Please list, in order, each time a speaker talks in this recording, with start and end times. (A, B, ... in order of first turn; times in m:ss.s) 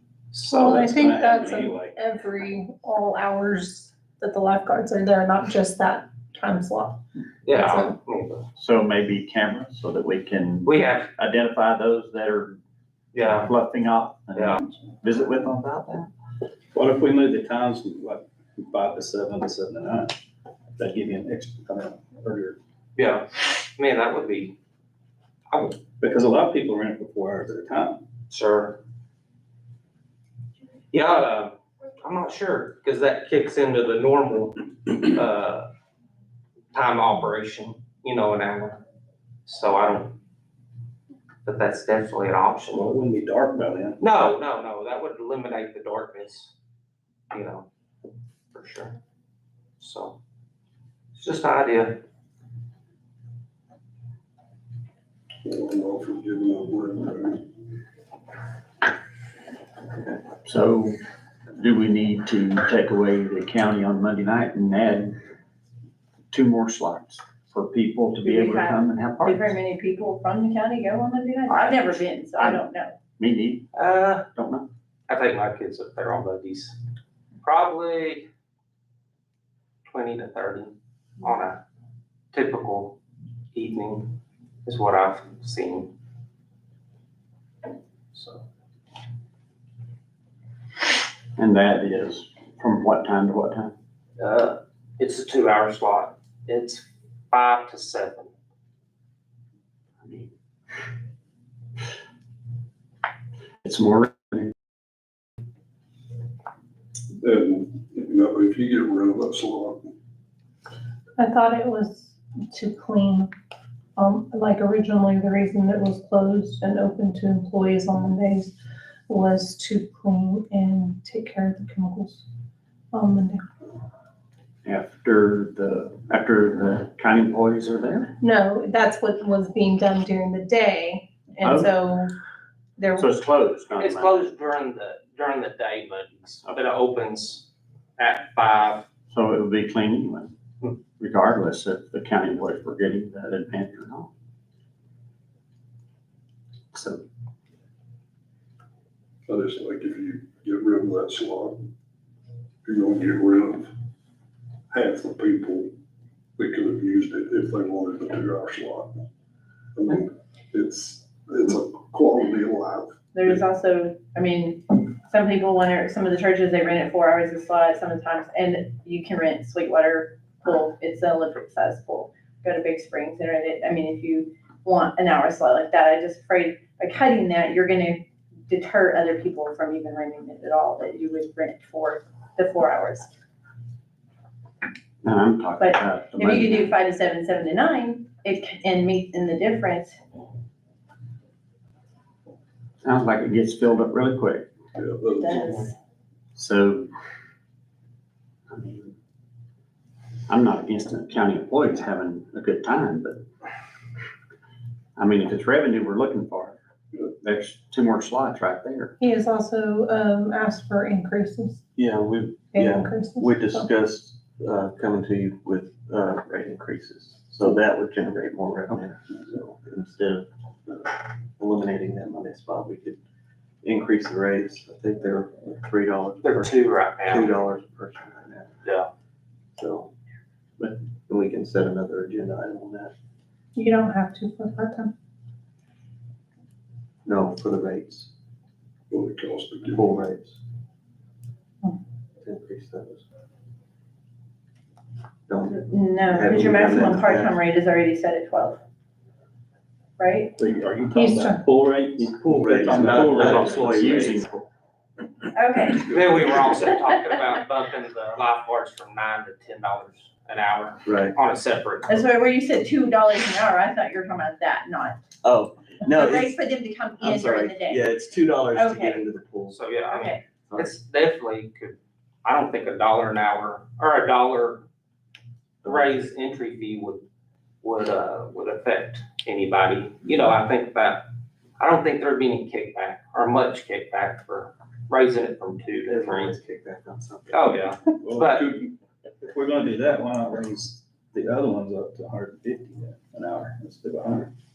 0:00.3-0:01.0 A
0:00.4-0:07.0 B
0:00.7-0:02.0 C
0:07.4-0:08.4 A
0:07.5-0:08.0 B
0:08.6-0:12.6 D
0:10.6-0:11.1 A
0:13.1-0:13.5 A
0:13.2-0:16.1 D
0:16.7-0:20.1 C
0:20.8-0:22.6 C
0:23.0-0:24.6 A
0:25.5-0:25.8 A
0:26.0-0:28.0 C
0:28.3-0:28.8 A
0:30.9-0:35.7 A
0:36.7-0:38.8 A
0:39.4-0:40.2 A
0:41.4-0:42.9 A
0:42.7-0:44.0 C
0:44.0-0:46.5 A
0:47.3-0:47.7 A
0:48.5-0:49.0 A
0:49.8-0:50.2 A
0:51.1-0:52.0 A
0:55.4-0:57.4 E
1:00.4-1:01.0 D
1:01.6-1:05.1 D
1:06.3-1:09.5 D
1:08.2-1:13.0 F
1:12.3-1:12.6 D
1:13.2-1:13.7 D
1:13.7-1:14.2 A
1:14.3-1:14.7 D
1:15.1-1:16.8 A
1:17.4-1:18.3 A
1:19.9-1:21.6 A
1:22.3-1:23.0 A
1:23.5-1:25.9 A
1:28.1-1:28.4 A
1:31.4-1:33.7 D
1:34.2-1:38.3 A
1:40.0-1:40.3 D
1:43.6-1:44.5 D
1:47.2-1:49.9 E
1:51.2-1:53.3 B
1:54.0-1:58.5 B
1:59.1-2:02.2 B
2:02.9-2:03.4 B
2:04.6-2:08.1 D
2:08.2-2:12.1 B
2:11.4-2:11.7 D
2:12.8-2:13.1 B
2:13.0-2:14.2 D
2:13.8-2:17.5 A
2:18.0-2:18.9 A
2:19.1-2:20.3 D
2:21.0-2:24.1 D
2:26.7-2:27.0 D
2:29.3-2:31.7 E
2:32.6-2:33.7 E
2:34.7-2:35.7 E
2:36.4-2:39.0 E
2:39.8-2:43.4 E
2:43.1-3:03.1 F
3:05.0-3:06.7 D
3:05.6-3:10.0 F
3:12.8-3:14.5 D
3:14.8-3:15.7 E
3:15.2-3:15.7 F
3:16.3-3:16.9 D
3:18.5-3:18.9 D
3:20.3-3:23.2 D
3:25.0-3:26.6 D
3:27.2-3:28.9 D
3:29.0-3:31.6 B
3:31.8-3:40.2 G
3:32.5-3:33.7 B
3:41.4-3:43.0 G
3:43.6-3:46.5 G
3:46.2-3:47.4 A
3:47.1-3:48.5 G
3:48.6-3:48.9 A
3:49.6-3:49.9 G
3:50.6-3:52.9 G
3:53.5-3:54.9 B
3:57.0-3:58.1 G
3:58.9-4:00.0 E
3:59.7-4:00.4 G
4:02.2-4:03.0 G
4:05.3-4:07.4 G
4:05.4-4:08.6 F
4:10.0-4:10.3 F
4:10.4-4:13.9 C
4:10.9-4:11.4 B
4:12.3-4:14.2 G
4:13.2-4:14.5 D
4:15.3-4:15.9 F
4:15.8-4:22.1 A
4:20.8-4:21.1 G
4:21.9-4:25.0 F
4:25.2-4:26.4 G
4:25.9-4:27.8 F
4:27.0-4:29.6 G
4:28.5-4:29.0 F
4:29.5-4:34.6 A
4:29.9-4:30.2 F
4:35.6-4:35.9 G
4:35.6-4:37.0 A
4:37.6-4:41.1 A
4:41.6-4:46.4 A
4:45.9-4:47.4 G
4:47.3-4:48.4 A
4:48.0-4:48.7 C
4:49.2-4:54.3 C